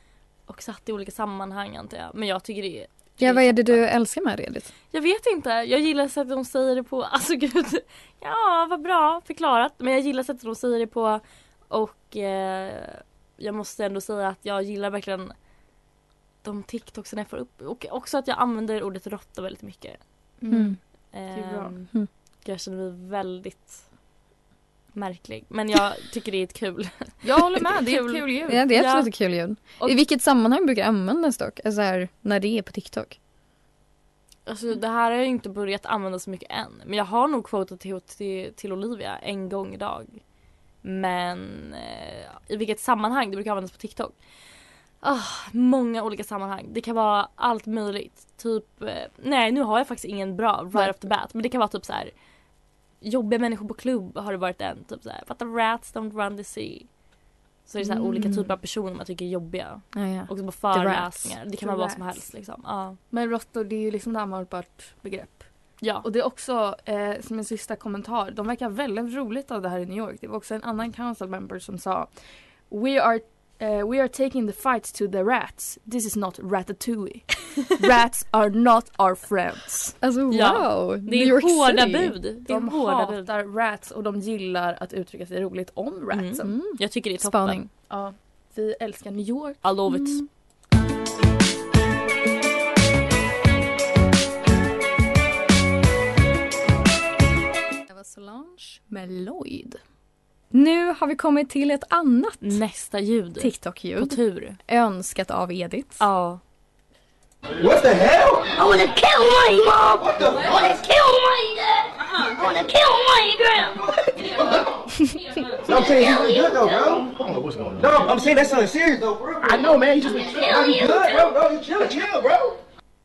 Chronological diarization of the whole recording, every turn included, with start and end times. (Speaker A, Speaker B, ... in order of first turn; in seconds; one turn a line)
Speaker A: 0.5-3.9
Speaker B: 3.2-4.7
Speaker A: 4.9-15.3
Speaker A: 16.4-20.0
Speaker C: 20.4-20.8
Speaker B: 20.5-20.8
Speaker A: 21.1-21.9
Speaker C: 21.3-21.7
Speaker A: 22.4-23.8
Speaker A: 24.9-28.2
Speaker C: 27.2-28.7
Speaker B: 28.5-33.2
Speaker A: 28.7-29.1
Speaker A: 34.5-40.2
Speaker A: 40.8-44.2
Speaker A: 45.0-52.1
Speaker A: 53.0-56.9
Speaker A: 57.7-63.0
Speaker C: 57.8-58.3
Speaker B: 58.1-58.5
Speaker B: 59.9-61.4
Speaker C: 61.6-62.3
Speaker C: 63.1-80.0
Speaker B: 80.0-82.2
Speaker A: 80.3-83.3
Speaker C: 82.5-86.5
Speaker A: 86.1-87.7
Speaker B: 86.4-87.7
Speaker C: 87.9-89.6
Speaker A: 89.6-90.2
Speaker B: 97.9-99.8
Speaker B: 100.5-102.6
Speaker A: 102.4-104.6
Speaker B: 103.4-106.1
Speaker A: 106.0-106.4
Speaker D: 107.6-108.6
Speaker E: 108.6-113.8
Speaker D: 110.0-110.6
Speaker D: 115.6-122.5
Speaker E: 115.8-116.8
Speaker E: 120.1-121.3